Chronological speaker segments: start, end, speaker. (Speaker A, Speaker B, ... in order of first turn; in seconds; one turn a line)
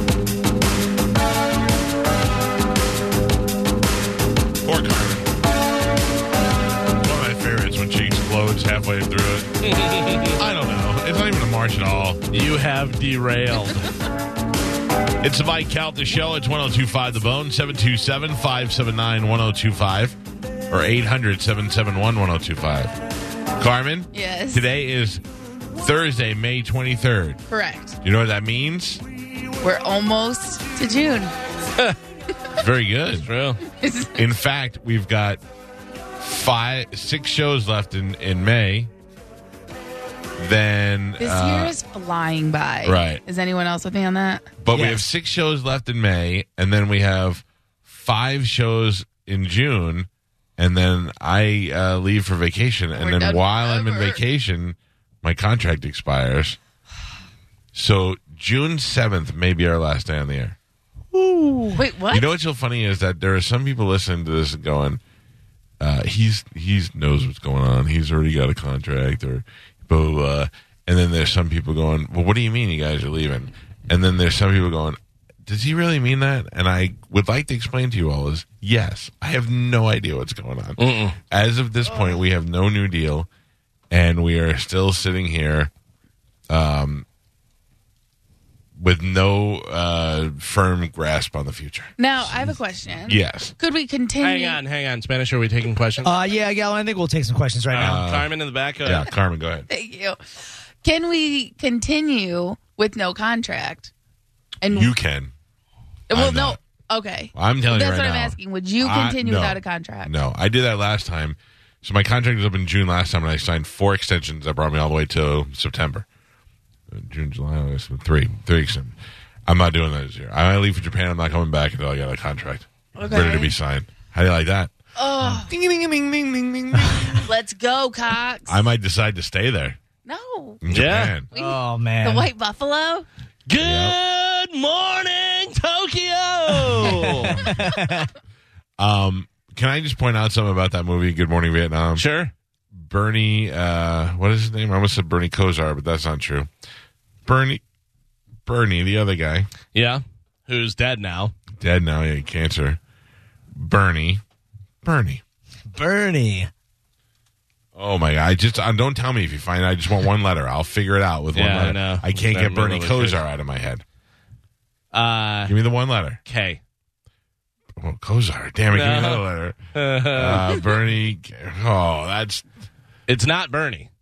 Speaker A: 4.6-5.3
Speaker A: 7.0-9.5
Speaker B: 9.6-10.4
Speaker A: 10.3-12.2
Speaker B: 12.3-13.9
Speaker A: 15.2-20.2
Speaker A: 20.7-22.9
Speaker A: 23.6-25.2
Speaker C: 24.1-24.6
Speaker A: 25.8-27.4
Speaker C: 27.5-28.0
Speaker A: 28.0-29.0
Speaker C: 29.6-31.3
Speaker A: 32.5-33.3
Speaker B: 33.2-33.6
Speaker C: 33.7-34.3
Speaker A: 34.1-35.4
Speaker A: 36.2-38.9
Speaker A: 40.4-41.8
Speaker C: 41.2-44.5
Speaker A: 42.8-43.2
Speaker A: 44.6-56.6
Speaker C: 53.0-54.2
Speaker A: 57.7-60.6
Speaker D: 61.1-61.6
Speaker C: 61.8-62.2
Speaker A: 62.1-65.0
Speaker A: 65.8-83.3
Speaker B: 80.8-81.2
Speaker A: 83.9-85.7
Speaker A: 86.5-87.1
Speaker A: 88.8-93.5
Speaker C: 92.0-94.6
Speaker B: 94.2-96.1
Speaker D: 96.0-98.0
Speaker B: 97.7-99.1
Speaker A: 97.7-99.7
Speaker C: 99.7-100.2
Speaker C: 100.8-103.9
Speaker C: 104.6-104.9
Speaker A: 104.7-105.3
Speaker C: 106.1-110.1
Speaker A: 106.1-106.6
Speaker A: 107.3-116.1
Speaker A: 116.9-119.0
Speaker A: 119.5-127.3
Speaker C: 123.0-123.5
Speaker C: 125.0-125.5
Speaker C: 127.2-128.6
Speaker A: 128.5-129.8
Speaker C: 130.1-130.6
Speaker A: 130.6-131.3
Speaker B: 130.7-131.2
Speaker C: 131.3-133.1
Speaker D: 131.3-132.3
Speaker B: 133.5-138.1
Speaker A: 133.6-134.0
Speaker A: 136.9-137.3
Speaker C: 137.1-137.5
Speaker A: 138.8-142.1
Speaker B: 141.9-142.3
Speaker A: 142.8-146.5
Speaker A: 147.2-147.6
Speaker A: 148.5-149.5
Speaker B: 149.7-151.3
Speaker A: 151.6-152.8
Speaker A: 153.6-154.2
Speaker A: 154.8-155.2
Speaker D: 155.8-156.5
Speaker A: 157.8-163.8
Speaker B: 161.3-163.2
Speaker B: 164.9-165.5
Speaker A: 165.5-166.2
Speaker B: 166.3-166.6
Speaker A: 167.8-169.6
Speaker B: 168.7-169.2
Speaker B: 169.8-170.6
Speaker A: 170.1-172.5
Speaker B: 173.1-173.9